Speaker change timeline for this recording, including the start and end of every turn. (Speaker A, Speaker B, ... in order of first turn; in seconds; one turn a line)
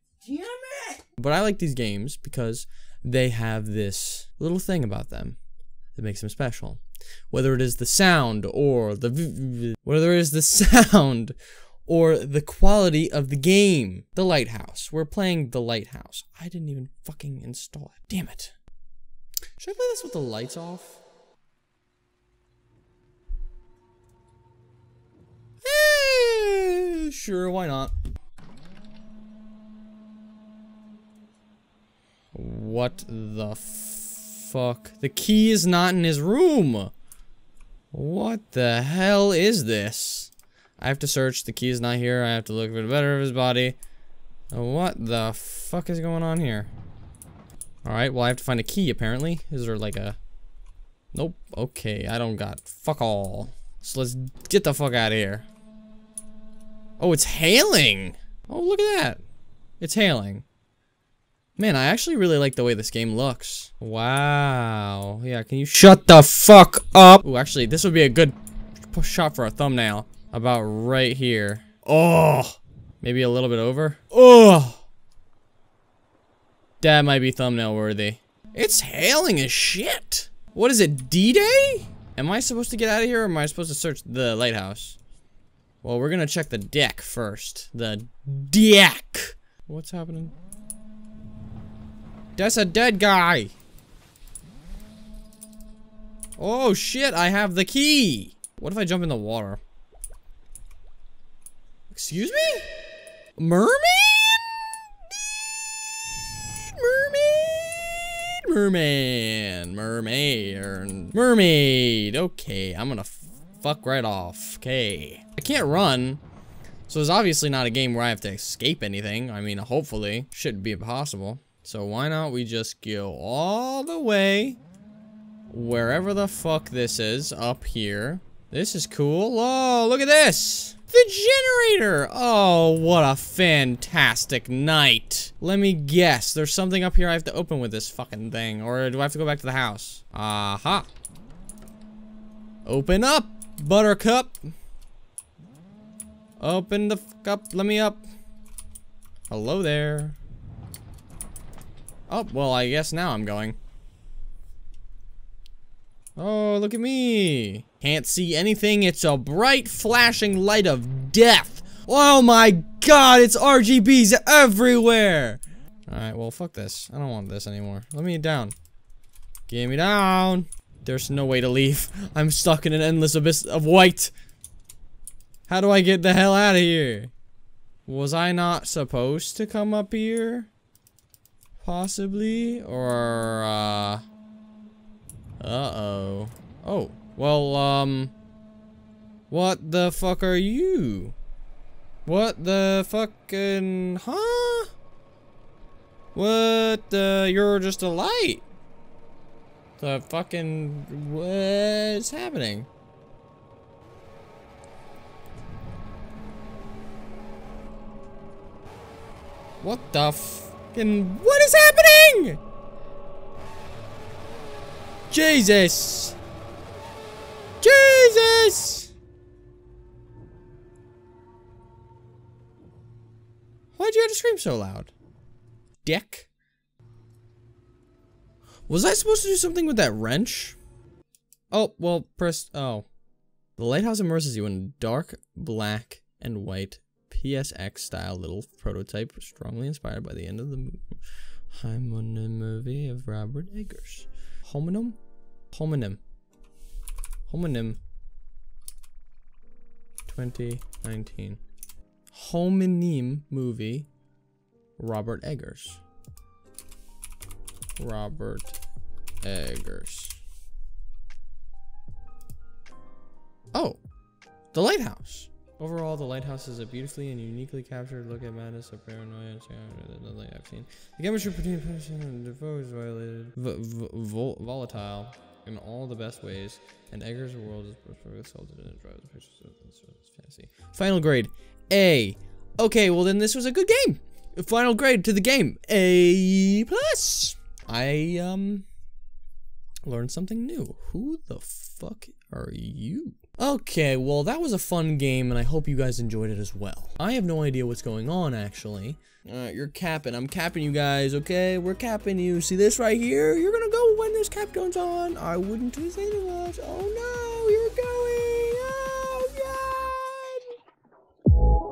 Speaker A: 0.2-5.4
Speaker A: 6.0-11.4
Speaker A: 11.9-18.5
Speaker A: 19.6-21.0
Speaker A: 25.6-27.9
Speaker A: 32.3-36.9
Speaker A: 37.9-43.8
Speaker A: 44.5-46.7
Speaker A: 47.8-50.2
Speaker A: 51.1-55.5
Speaker A: 57.0-59.2
Speaker A: 59.8-60.5
Speaker A: 61.6-74.8
Speaker A: 76.8-85.0
Speaker A: 85.8-90.3
Speaker A: 92.4-93.5
Speaker A: 96.4-99.6
Speaker A: 101.9-102.7
Speaker A: 103.4-104.6
Speaker A: 106.4-116.2
Speaker A: 116.9-124.6
Speaker A: 125.5-140.9
Speaker A: 142.7-144.4
Speaker A: 146.4-148.0
Speaker A: 149.3-150.2
Speaker A: 152.1-153.6
Speaker A: 156.2-168.6
Speaker A: 169.5-174.1
Speaker A: 175.5-177.1
Speaker A: 177.9-180.5
Speaker A: 181.6-184.0
Speaker A: 185.4-188.1
Speaker A: 189.3-191.2
Speaker A: 192.1-194.7
Speaker A: 196.2-198.5
Speaker A: 199.8-202.7
Speaker A: 209.6-212.4
Speaker A: 215.1-216.2
Speaker A: 217.6-218.9
Speaker A: 223.8-224.9
Speaker A: 225.8-226.3
Speaker A: 228.7-230.6
Speaker A: 231.5-232.9
Speaker A: 233.6-241.0
Speaker A: 241.5-245.0
Speaker A: 245.5-246.0
Speaker A: 247.3-247.8
Speaker A: 250.1-251.4
Speaker A: 252.1-253.9
Speaker A: 254.8-255.8
Speaker A: 257.8-258.6
Speaker A: 259.2-260.2
Speaker A: 263.5-263.8
Speaker A: 264.5-288.7
Speaker A: 289.9-310.6